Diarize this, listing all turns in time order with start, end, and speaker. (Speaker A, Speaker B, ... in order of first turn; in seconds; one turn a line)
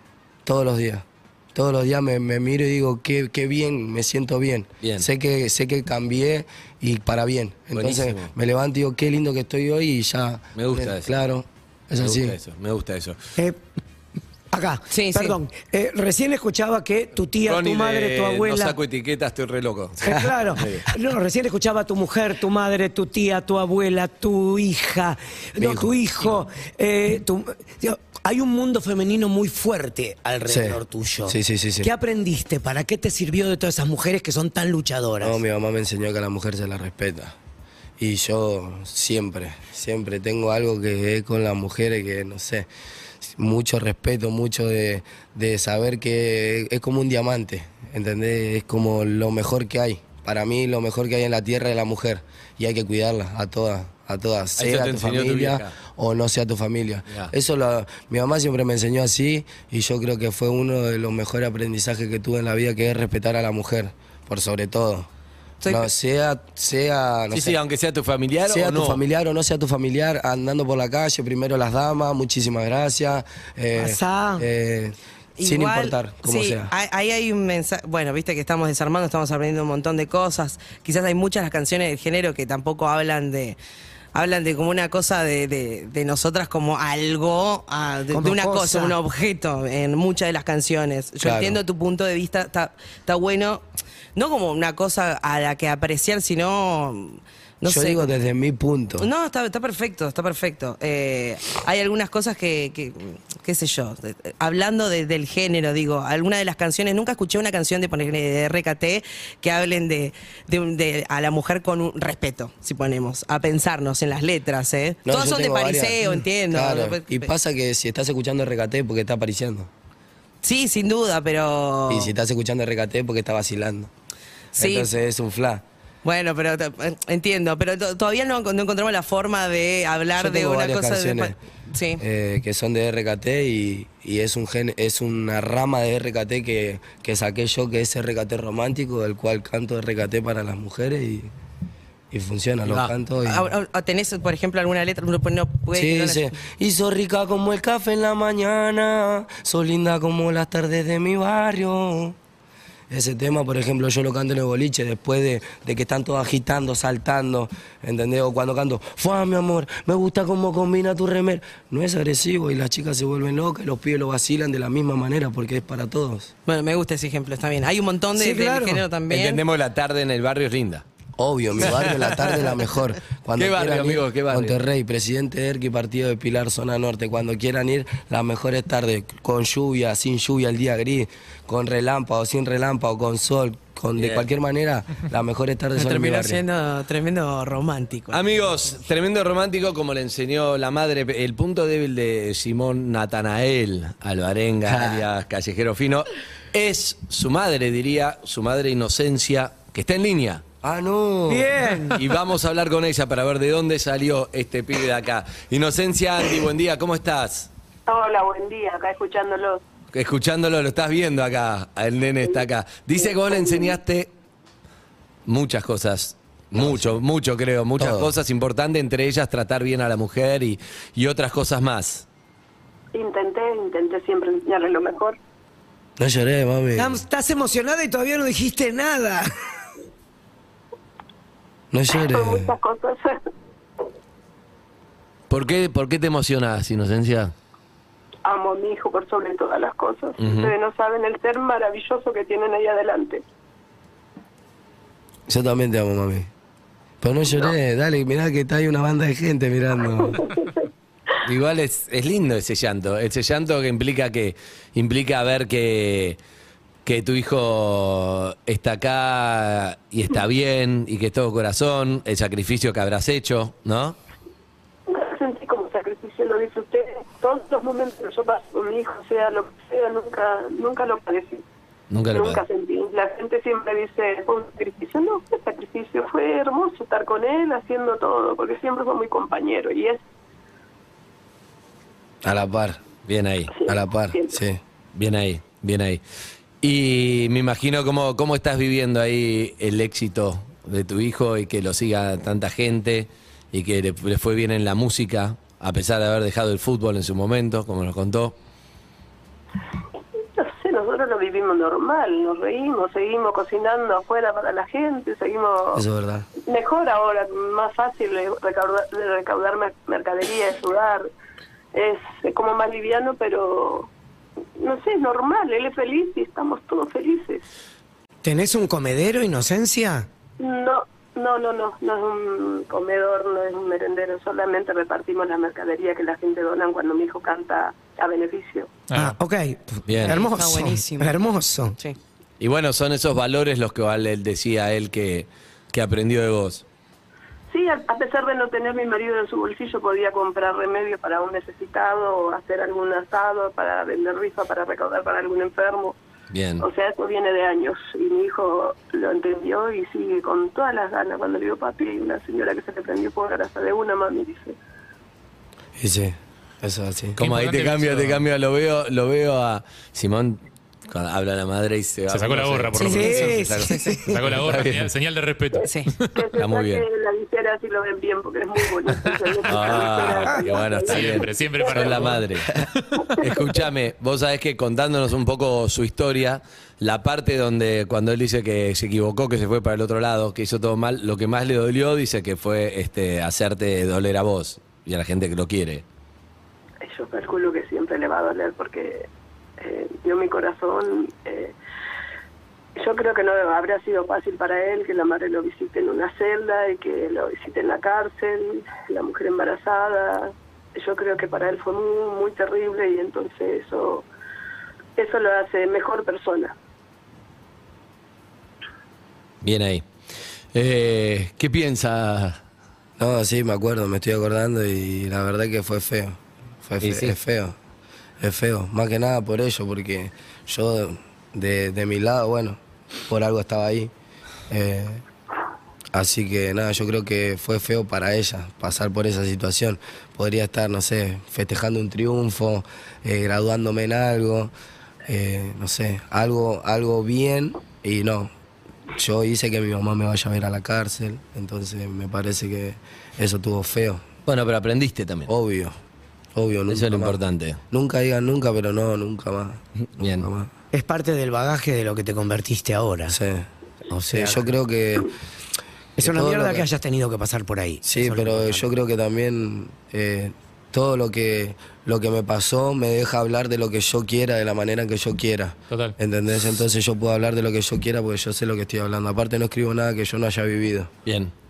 Speaker A: 0.5-12.4
Speaker B: 4.8-5.1
Speaker B: 7.8-8.3
Speaker B: 10.6-11.2
Speaker B: 12.0-13.2
Speaker C: 14.5-18.8
Speaker D: 14.9-15.4
Speaker B: 17.4-20.9
Speaker C: 20.0-35.4
Speaker A: 25.6-25.9
Speaker A: 30.5-31.9
Speaker A: 35.2-37.4
Speaker A: 38.0-42.7
Speaker A: 43.2-65.1
Speaker B: 54.6-55.7
Speaker D: 65.6-65.9
Speaker A: 65.7-67.6
Speaker B: 67.3-69.0
Speaker A: 68.5-76.7
Speaker C: 73.8-74.5
Speaker D: 75.4-83.6
Speaker D: 84.1-98.1
Speaker C: 88.1-89.0
Speaker A: 91.2-91.6
Speaker A: 97.7-99.1
Speaker D: 99.0-117.3
Speaker A: 115.1-119.7
Speaker D: 120.4-122.1
Speaker A: 121.9-123.9
Speaker D: 124.6-124.9
Speaker A: 124.6-125.6
Speaker D: 126.0-132.0
Speaker A: 130.2-131.4
Speaker A: 132.0-141.3
Speaker A: 142.1-143.5
Speaker B: 142.7-142.9
Speaker D: 143.2-146.3
Speaker A: 145.7-152.2
Speaker A: 152.9-166.3
Speaker D: 166.5-169.4
Speaker C: 168.2-168.8
Speaker B: 169.1-170.8
Speaker A: 171.2-186.4
Speaker B: 171.6-172.5
Speaker B: 173.4-174.6
Speaker B: 184.0-184.3
Speaker D: 185.8-188.2
Speaker B: 188.1-200.4
Speaker A: 194.7-195.1
Speaker A: 200.6-201.5
Speaker C: 201.3-202.0
Speaker B: 202.0-207.5
Speaker E: 207.9-209.6
Speaker B: 209.9-214.1
Speaker E: 212.2-213.8
Speaker B: 215.3-222.1
Speaker A: 216.5-217.0
Speaker A: 217.8-218.1
Speaker E: 222.9-225.2
Speaker A: 226.0-227.0
Speaker C: 226.8-229.3
Speaker A: 231.7-232.5
Speaker E: 231.9-233.2
Speaker B: 235.3-237.3
Speaker E: 238.2-243.2
Speaker B: 240.2-240.5
Speaker A: 245.3-246.3
Speaker A: 247.0-250.3
Speaker E: 250.0-250.6
Speaker B: 251.2-256.2
Speaker B: 256.9-264.0
Speaker E: 264.9-271.4
Speaker B: 271.9-272.4
Speaker E: 272.1-280.0
Speaker A: 282.2-282.8
Speaker B: 283.1-283.5
Speaker E: 283.5-284.4
Speaker A: 283.7-284.6
Speaker B: 284.9-286.0
Speaker B: 286.6-298.4
Speaker E: 300.4-305.9
Speaker A: 305.7-306.3
Speaker E: 306.5-311.1
Speaker E: 311.7-313.9
Speaker E: 314.6-317.4
Speaker C: 318.2-320.1
Speaker E: 320.4-328.7
Speaker F: 328.9-329.2
Speaker C: 328.9-331.8
Speaker B: 329.9-330.2
Speaker D: 330.0-331.2
Speaker B: 332.4-336.6
Speaker E: 337.5-346.0
Speaker B: 346.3-346.7
Speaker E: 346.6-354.6
Speaker A: 355.8-357.2
Speaker F: 357.2-358.2
Speaker B: 357.2-364.9
Speaker F: 362.1-363.4
Speaker D: 362.8-363.9
Speaker C: 362.8-364.2
Speaker F: 364.1-366.1
Speaker E: 365.5-372.2
Speaker B: 366.3-366.9
Speaker B: 369.5-372.6
Speaker F: 370.9-373.1
Speaker E: 373.1-373.6
Speaker B: 373.2-385.8
Speaker E: 386.8-391.5
Speaker E: 392.8-404.1
Speaker E: 405.0-406.6
Speaker B: 409.4-409.9
Speaker B: 410.5-412.4
Speaker A: 413.0-417.6
Speaker B: 416.8-417.1
Speaker A: 418.2-423.9
Speaker A: 424.5-425.0
Speaker A: 425.9-434.5
Speaker A: 435.1-438.3
Speaker A: 438.9-444.0
Speaker B: 444.3-445.3
Speaker A: 445.3-445.8
Speaker A: 446.4-447.2
Speaker B: 446.7-447.6
Speaker A: 447.7-449.6
Speaker B: 450.0-450.3
Speaker A: 450.2-450.5
Speaker C: 450.7-453.2
Speaker A: 453.1-453.5
Speaker C: 454.0-454.4
Speaker A: 454.1-455.1
Speaker C: 456.0-458.6
Speaker A: 456.0-456.7
Speaker A: 457.9-470.9
Speaker B: 471.1-471.3